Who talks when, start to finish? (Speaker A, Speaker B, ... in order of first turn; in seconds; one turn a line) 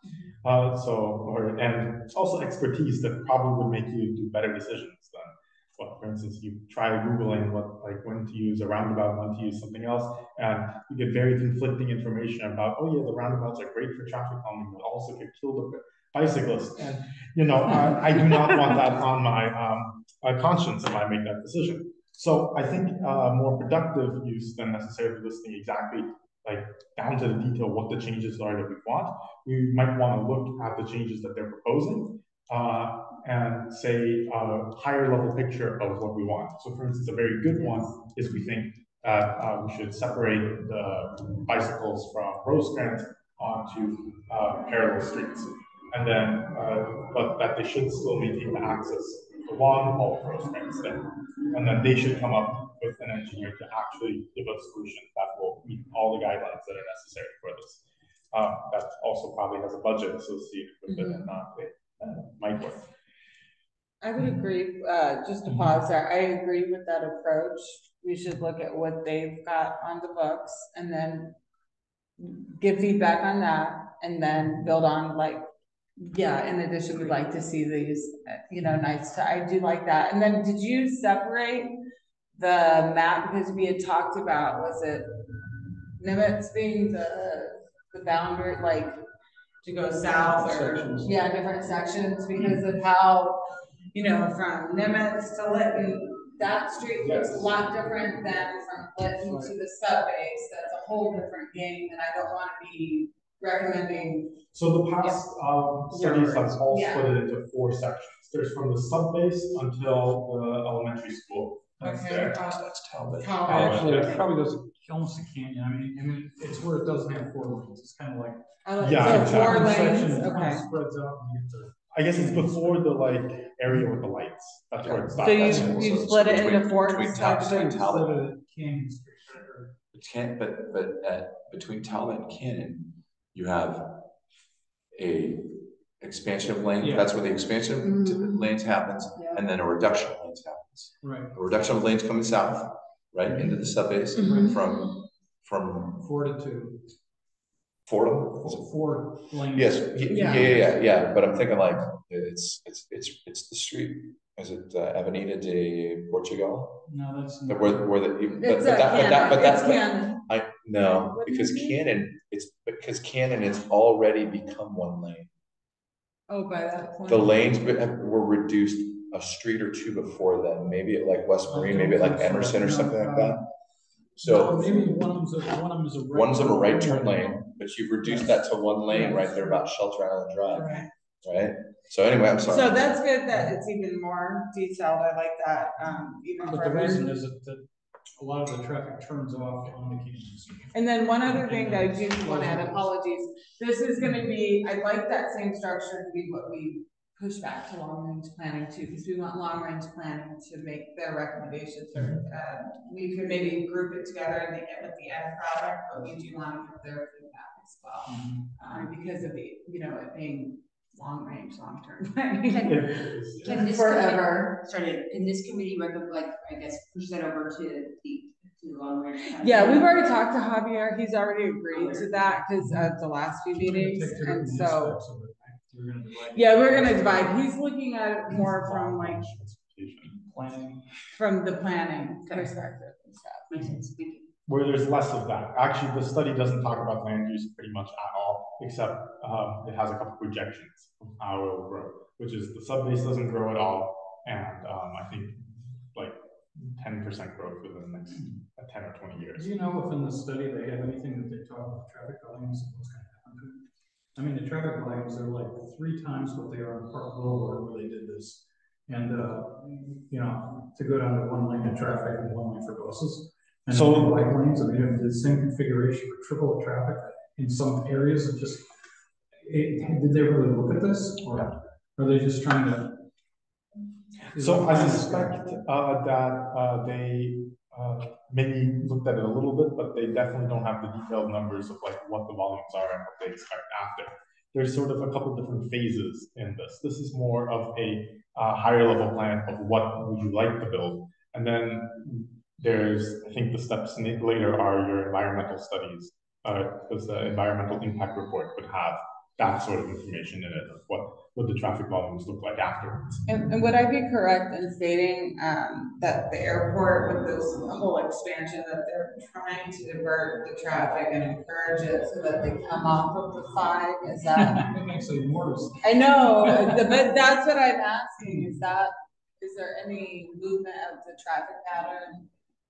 Speaker A: 0.4-62.9
Speaker B: 60.9-61.2
Speaker B: 64.0-71.4
Speaker B: 72.2-75.5
Speaker B: 76.0-81.7
Speaker B: 82.3-85.2
Speaker B: 86.0-89.0
Speaker B: 89.6-104.4
Speaker C: 90.0-91.2
Speaker A: 97.0-97.5
Speaker C: 99.2-99.5
Speaker A: 104.5-112.4
Speaker B: 105.9-107.1
Speaker B: 111.8-114.2
Speaker D: 112.3-113.5
Speaker C: 113.5-122.9
Speaker A: 113.5-114.2
Speaker B: 118.6-120.6
Speaker A: 118.8-120.0
Speaker A: 121.9-125.8
Speaker C: 123.7-123.9
Speaker D: 124.8-128.2
Speaker B: 125.2-127.7
Speaker C: 125.5-125.8
Speaker C: 127.3-129.7
Speaker D: 129.9-134.1
Speaker D: 134.9-146.0
Speaker C: 136.8-137.1
Speaker B: 137.8-138.4
Speaker C: 141.0-141.3
Speaker C: 143.2-144.6
Speaker B: 144.1-144.6
Speaker C: 145.9-146.8
Speaker D: 147.9-148.7
Speaker C: 148.4-150.9
Speaker D: 149.3-156.8
Speaker B: 150.1-150.5
Speaker C: 156.9-157.9
Speaker D: 157.5-165.3
Speaker B: 158.4-160.2
Speaker B: 160.8-161.8
Speaker B: 166.3-167.5
Speaker D: 167.1-173.4
Speaker C: 171.4-173.4
Speaker D: 174.2-174.9
Speaker C: 174.2-177.4
Speaker D: 176.1-183.0
Speaker C: 178.0-179.7
Speaker C: 180.5-180.9
Speaker B: 182.4-187.1
Speaker C: 186.4-187.6
Speaker C: 188.2-192.9
Speaker B: 190.7-214.6
Speaker C: 208.1-208.5
Speaker A: 212.6-213.6
Speaker E: 213.4-220.1
Speaker B: 219.4-224.9
Speaker E: 221.7-222.4
Speaker C: 222.6-222.9
Speaker C: 223.5-227.4
Speaker B: 226.3-229.2
Speaker A: 228.3-230.2
Speaker C: 230.1-230.9
Speaker B: 231.1-233.5
Speaker E: 232.3-232.6
Speaker E: 233.5-234.3
Speaker A: 234.5-249.5
Speaker C: 249.3-268.7
Speaker A: 263.7-264.2
Speaker C: 269.4-273.0
Speaker C: 274.3-275.5
Speaker A: 274.3-303.2
Speaker B: 303.2-314.8
Speaker C: 314.4-316.9
Speaker B: 315.8-322.3